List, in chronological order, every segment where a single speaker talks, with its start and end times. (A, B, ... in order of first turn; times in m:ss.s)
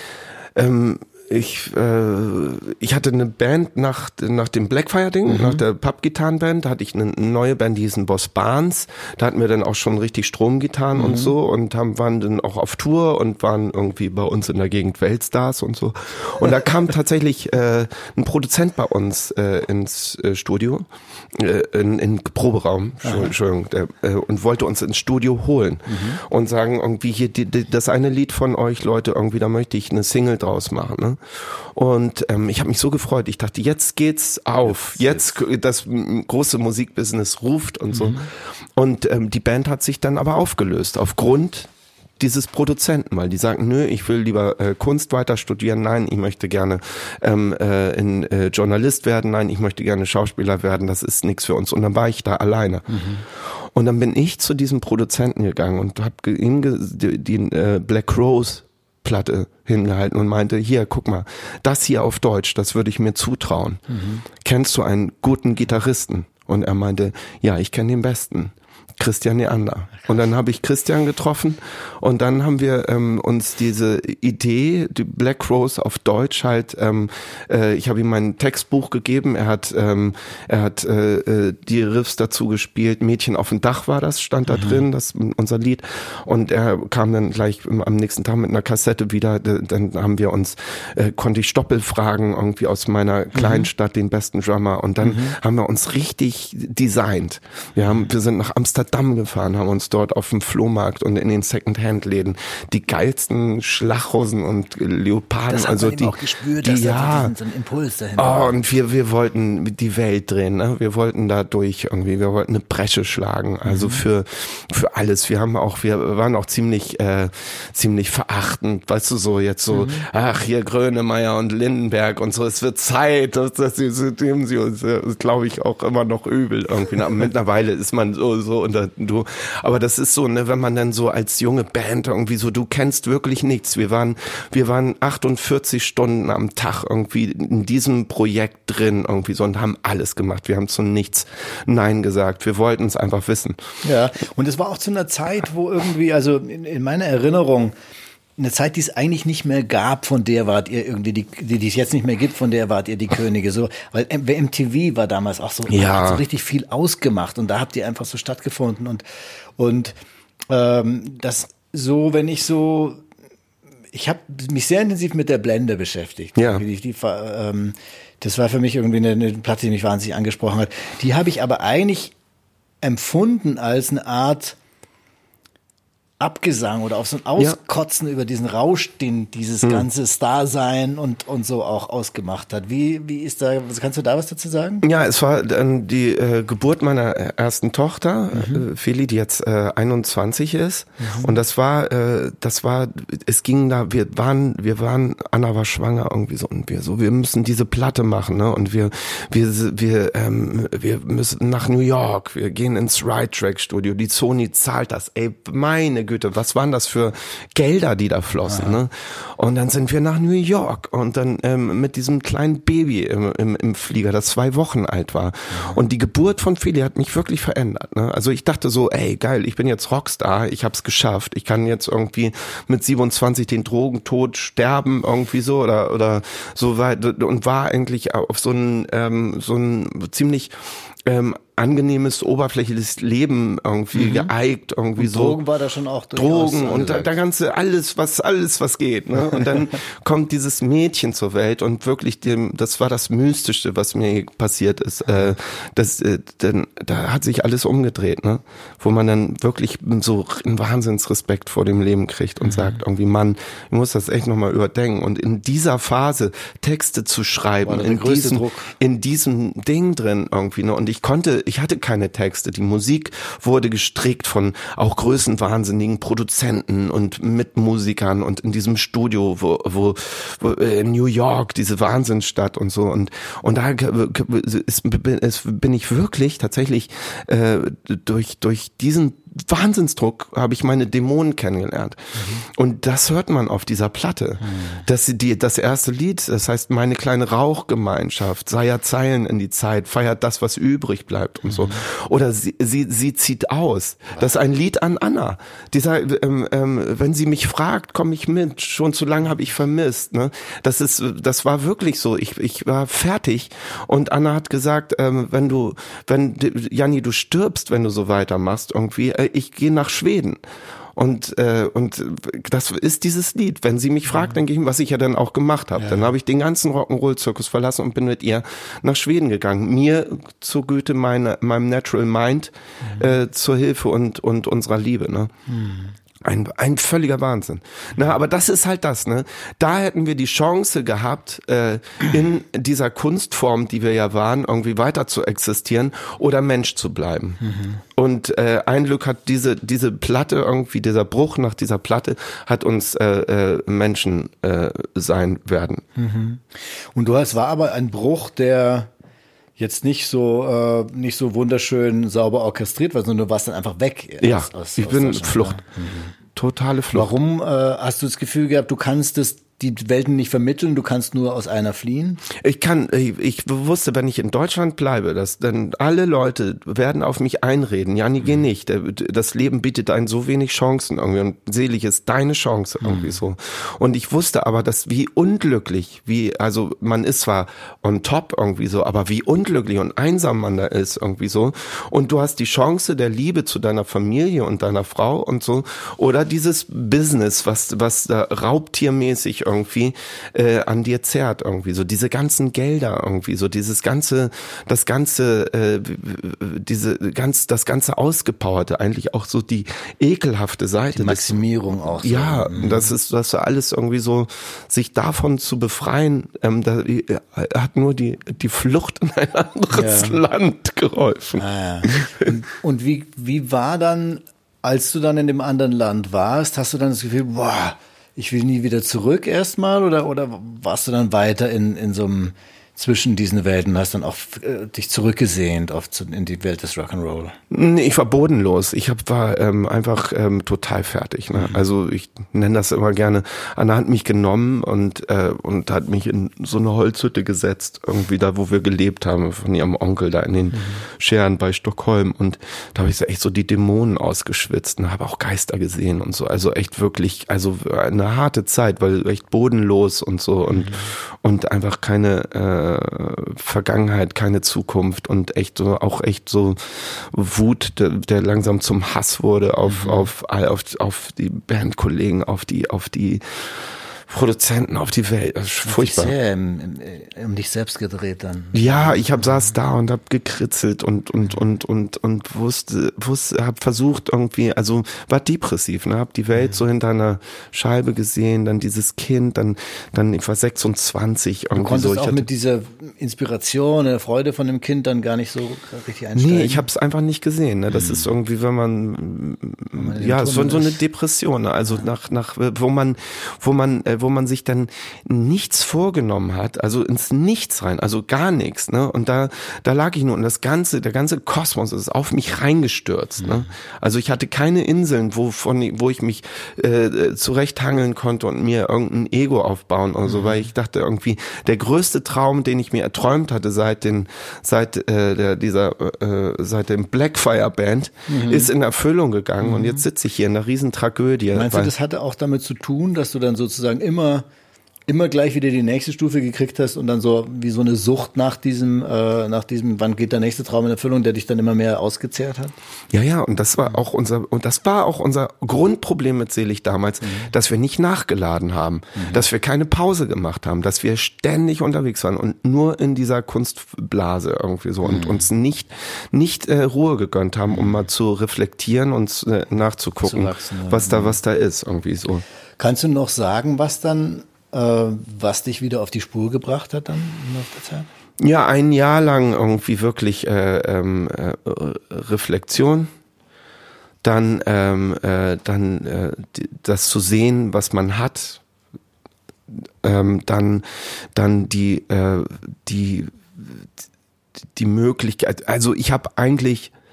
0:00.5-0:52.9 A
0:05.3-0:05.6 B
0:10.9-0:11.3 B
0:23.0-0:23.3 B
0:25.9-0:26.2 B
0:37.9-0:38.3 B
0:52.9-0:53.2 B
0:53.4-1:03.8 A
1:03.9-1:04.2 B
1:04.4-1:47.3 A
1:24.5-1:24.8 B
1:33.3-1:33.7 B
1:35.0-1:35.4 B
1:45.4-1:48.6 B
1:48.2-2:23.6 A
1:53.6-1:54.0 B
1:59.7-2:00.0 B
2:23.8-2:27.7 B
2:28.4-2:39.0 B
2:35.7-2:36.2 A
2:39.6-2:39.9 B
2:40.5-2:43.0 B
2:43.9-2:52.1 B
2:46.4-2:46.6 A
2:52.8-2:54.6 B
2:56.2-3:04.8 B
3:04.8-3:55.4 A
3:08.3-3:08.6 B
3:11.0-3:11.4 B
3:28.5-3:28.8 B
3:35.5-3:35.8 B
3:53.9-3:54.3 B
3:55.0-3:57.1 B
3:56.2-5:10.4 A
4:12.4-4:12.8 B
4:17.6-4:18.7 B
4:42.1-4:42.4 B
4:44.4-4:44.8 B
4:51.4-4:51.8 B
5:11.0-5:25.3 A
5:15.8-5:16.1 B
5:22.8-5:23.1 B
5:25.5-5:25.9 B
5:26.2-5:37.4 A
5:37.4-5:37.8 B
5:37.9-5:45.8 A
5:46.0-5:48.9 B
5:49.6-5:56.1 B
5:54.2-5:55.6 A
5:56.3-5:57.1 A
5:56.9-6:02.2 B
6:02.4-6:41.4 A
6:12.8-6:13.1 B
6:40.9-6:42.9 B
6:42.0-6:52.3 A
6:49.7-6:50.2 B
6:51.4-7:07.4 B
7:07.5-7:43.5 A
7:20.5-7:20.8 B
7:30.5-7:30.9 B
7:39.6-7:40.1 B
7:44.1-7:46.1 A
7:45.6-7:49.3 B
7:48.5-8:02.2 A
8:01.5-8:06.6 B
8:06.2-8:41.7 A
8:07.7-8:08.1 B
8:09.7-8:10.8 B
8:23.2-8:23.5 B
8:30.1-8:30.4 B
8:38.1-8:38.5 B
8:39.4-8:39.8 B
8:41.3-8:44.2 B
8:44.9-8:52.5 B
8:52.9-9:12.2 A
8:57.0-8:57.3 B
8:59.0-8:59.2 B
9:04.8-9:05.2 B
9:10.0-9:11.2 B
9:12.6-9:17.9 B
9:18.2-9:22.9 A
9:24.0-9:28.4 A
9:29.5-9:33.7 A
9:34.5-9:36.7 A